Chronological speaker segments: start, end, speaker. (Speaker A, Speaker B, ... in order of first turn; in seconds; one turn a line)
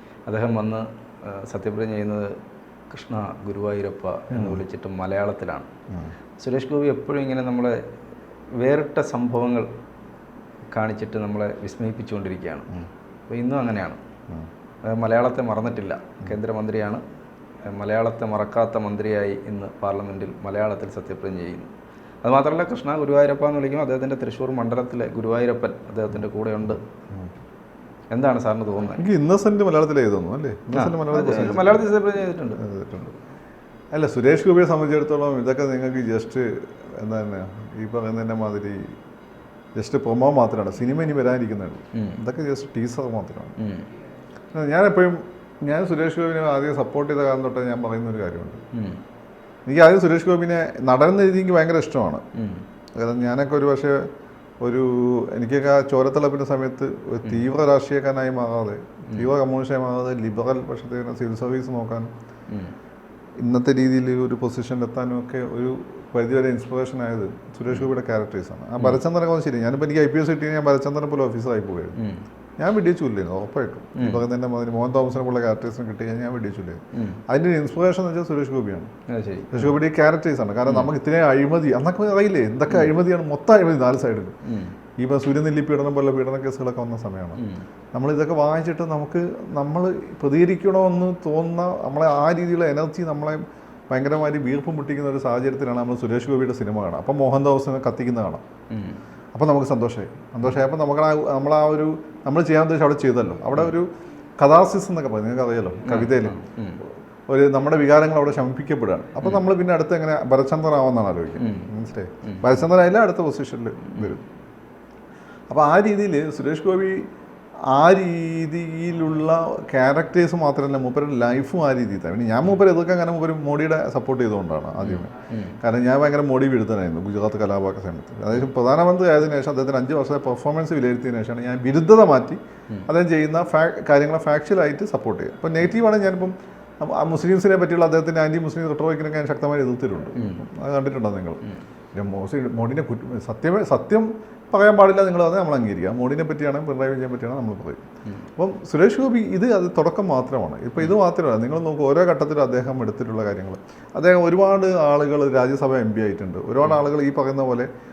Speaker A: 0.3-2.4
Speaker A: 2.9-5.7
Speaker B: 4.3-4.6
Speaker A: 6.4-7.8
Speaker A: 8.6-9.7
Speaker A: 10.7-12.7
Speaker A: 13.3-14.0
Speaker A: 14.8-17.0
Speaker A: 17.6-21.7
Speaker A: 22.2-26.8
Speaker A: 28.1-29.1
Speaker B: 28.9-31.9
Speaker A: 30.7-32.6
Speaker B: 32.5-33.1
Speaker B: 33.9-38.9
Speaker B: 39.8-43.5
Speaker A: 43.6-43.9
Speaker B: 44.5-48.6
Speaker A: 48.7-49.0
Speaker B: 49.7-52.2
Speaker A: 52.4-52.6
Speaker B: 53.0-54.1
Speaker B: 54.6-62.1
Speaker B: 63.4-72.0
Speaker A: 72.0-72.2
Speaker B: 72.6-78.9
Speaker A: 74.0-74.2
Speaker A: 76.9-77.2
Speaker A: 79.1-79.7
Speaker B: 79.5-84.3
Speaker A: 84.5-84.8
Speaker B: 85.0-87.4
Speaker A: 87.4-87.6
Speaker B: 87.9-98.4
Speaker A: 98.7-99.0
Speaker B: 99.3-103.9
Speaker B: 104.4-106.4
Speaker A: 105.9-106.8
Speaker B: 107.3-114.2
Speaker A: 111.4-111.7
Speaker A: 112.2-112.5
Speaker B: 115.5-117.0
Speaker B: 117.7-141.4
Speaker A: 124.8-125.6
Speaker A: 140.2-140.4
Speaker B: 141.9-147.8
Speaker B: 148.4-157.7